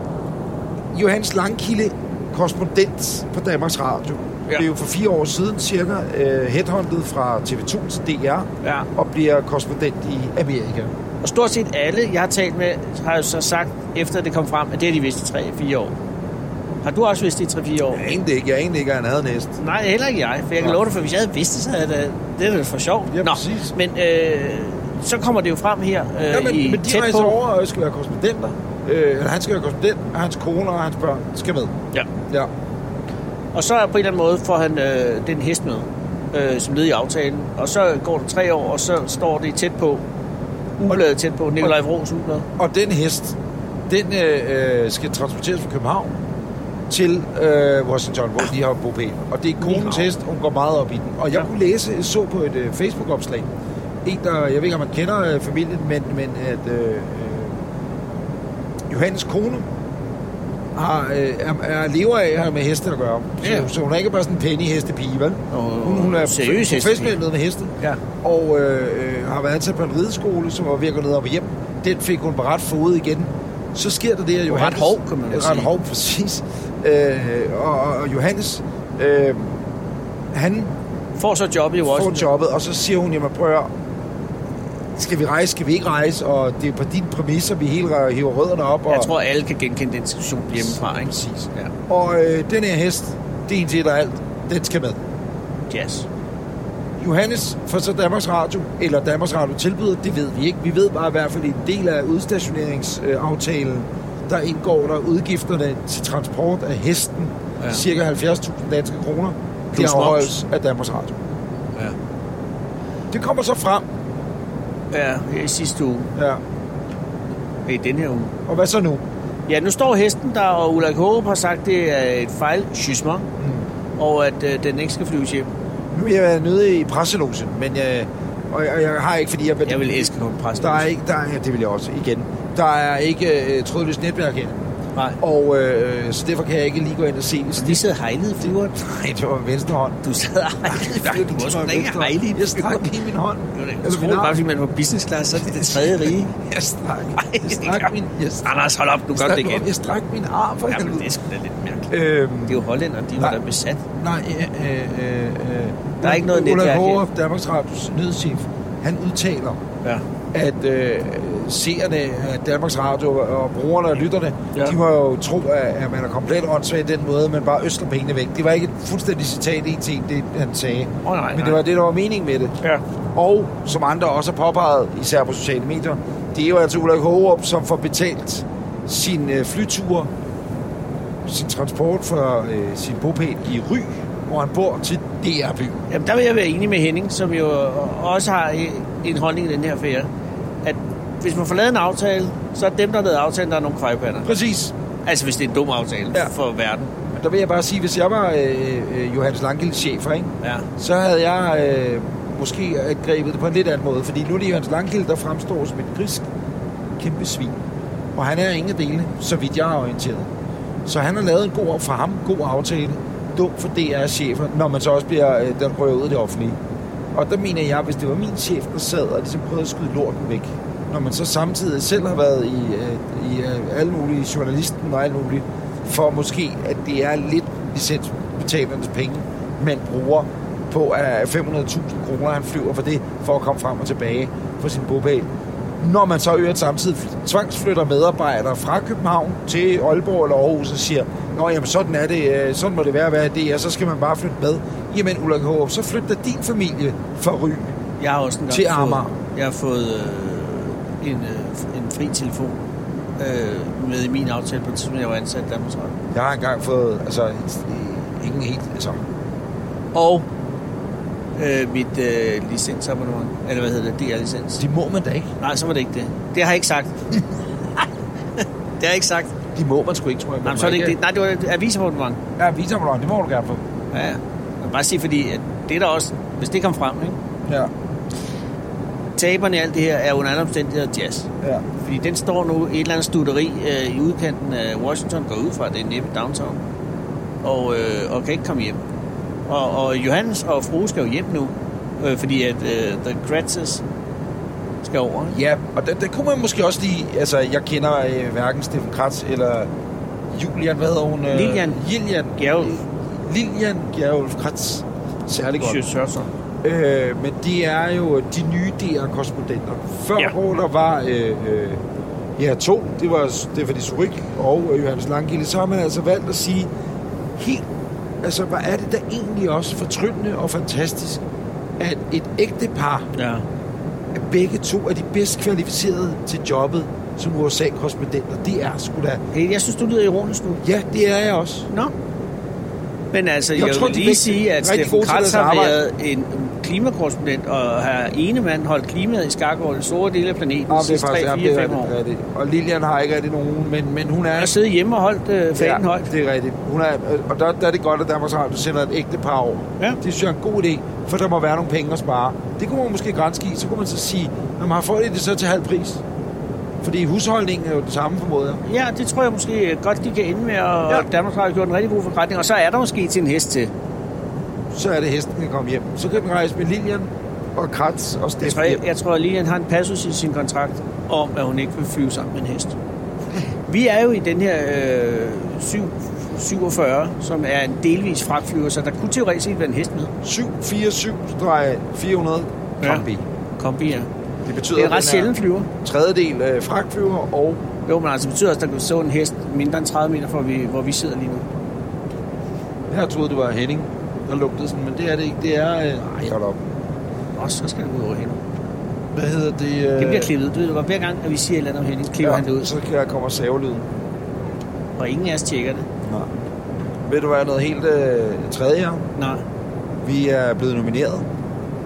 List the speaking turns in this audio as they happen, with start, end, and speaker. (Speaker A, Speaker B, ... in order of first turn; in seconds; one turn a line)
Speaker A: 0.9-10.9
Speaker B: 11.2-15.9
Speaker B: 16.8-18.1
Speaker A: 17.9-19.5
Speaker B: 19.6-27.4
Speaker A: 23.1-23.7
Speaker A: 26.3-31.7
Speaker B: 33.5-40.0
Speaker B: 40.8-42.5
Speaker A: 42.6-43.4
Speaker A: 43.9-46.1
Speaker A: 46.9-53.5
Speaker B: 49.6-50.1
Speaker A: 54.0-57.6
Speaker A: 58.9-59.7
Speaker A: 60.7-79.5
Speaker B: 63.4-63.7
Speaker B: 65.5-67.2
Speaker B: 74.5-75.7
Speaker A: 80.3-80.7
Speaker B: 81.2-82.3
Speaker A: 81.8-83.7
Speaker A: 84.9-89.1
Speaker B: 88.9-91.7
Speaker A: 90.6-95.0
Speaker B: 95.7-96.0
Speaker A: 97.0-111.2
Speaker B: 109.7-110.3
Speaker A: 113.1-113.8
Speaker B: 114.9-116.1
Speaker A: 116.2-116.4
Speaker B: 117.7-118.3
Speaker A: 118.5-119.0
Speaker B: 119.5-123.3
Speaker A: 123.4-123.7
Speaker B: 124.0-125.5
Speaker A: 125.9-130.1
Speaker B: 129.7-130.9
Speaker A: 130.6-137.8
Speaker B: 137.6-138.8
Speaker A: 138.7-140.0
Speaker B: 140.0-142.9
Speaker A: 140.6-144.4
Speaker B: 143.5-146.3
Speaker A: 145.4-148.6
Speaker B: 147.2-147.9
Speaker B: 148.4-149.8
Speaker A: 149.1-151.1
Speaker B: 150.7-151.9
Speaker A: 151.9-152.6
Speaker B: 152.5-153.8
Speaker A: 154.0-159.6
Speaker B: 156.0-157.0
Speaker A: 160.3-172.6
Speaker B: 171.0-171.6
Speaker A: 173.1-180.1
Speaker A: 181.2-185.8
Speaker B: 185.9-190.1
Speaker B: 190.6-194.3
Speaker A: 194.2-194.7
Speaker B: 195.0-196.9
Speaker A: 197.0-206.3
Speaker B: 200.4-200.7
Speaker A: 207.0-207.6
Speaker A: 208.1-210.3
Speaker A: 210.8-216.6
Speaker A: 217.1-235.3
Speaker A: 235.8-247.8
Speaker B: 248.0-252.5
Speaker A: 248.5-249.1
Speaker B: 253.2-255.9
Speaker A: 256.1-259.0
Speaker B: 259.9-260.2
Speaker B: 261.4-264.6
Speaker A: 264.6-265.3
Speaker B: 265.4-267.0
Speaker B: 268.4-269.3
Speaker A: 269.5-271.0
Speaker B: 270.4-272.2
Speaker A: 272.4-273.6
Speaker B: 273.9-277.2
Speaker A: 277.4-277.7
Speaker B: 279.2-286.6
Speaker B: 287.4-288.8
Speaker B: 289.5-293.8
Speaker B: 294.8-295.4
Speaker A: 295.3-299.7
Speaker A: 300.3-305.8
Speaker B: 301.3-301.8
Speaker B: 302.4-302.8
Speaker B: 305.6-306.3
Speaker A: 306.6-311.8
Speaker A: 312.4-316.7
Speaker A: 317.4-317.6
Speaker A: 318.2-321.2
Speaker A: 321.8-323.1
Speaker B: 323.1-323.4
Speaker A: 324.1-329.2
Speaker B: 329.3-330.6
Speaker A: 330.6-331.7
Speaker B: 333.1-341.9
Speaker A: 333.5-335.8
Speaker A: 340.7-344.6
Speaker B: 344.3-346.1
Speaker A: 345.6-356.0
Speaker A: 356.8-358.6
Speaker B: 358.6-363.7
Speaker A: 364.7-368.8
Speaker B: 368.4-372.7
Speaker B: 373.7-380.1
Speaker A: 380.2-383.2
Speaker B: 382.8-383.1
Speaker B: 383.6-384.1
Speaker A: 384.4-387.6
Speaker B: 384.7-385.7
Speaker B: 387.9-391.4
Speaker A: 392.9-396.6
Speaker B: 397.4-398.4
Speaker A: 399.1-400.3
Speaker B: 400.0-402.7
Speaker A: 402.2-403.9
Speaker B: 405.0-405.9
Speaker A: 406.0-406.3
Speaker A: 407.1-409.1
Speaker B: 409.1-409.4
Speaker A: 410.0-411.3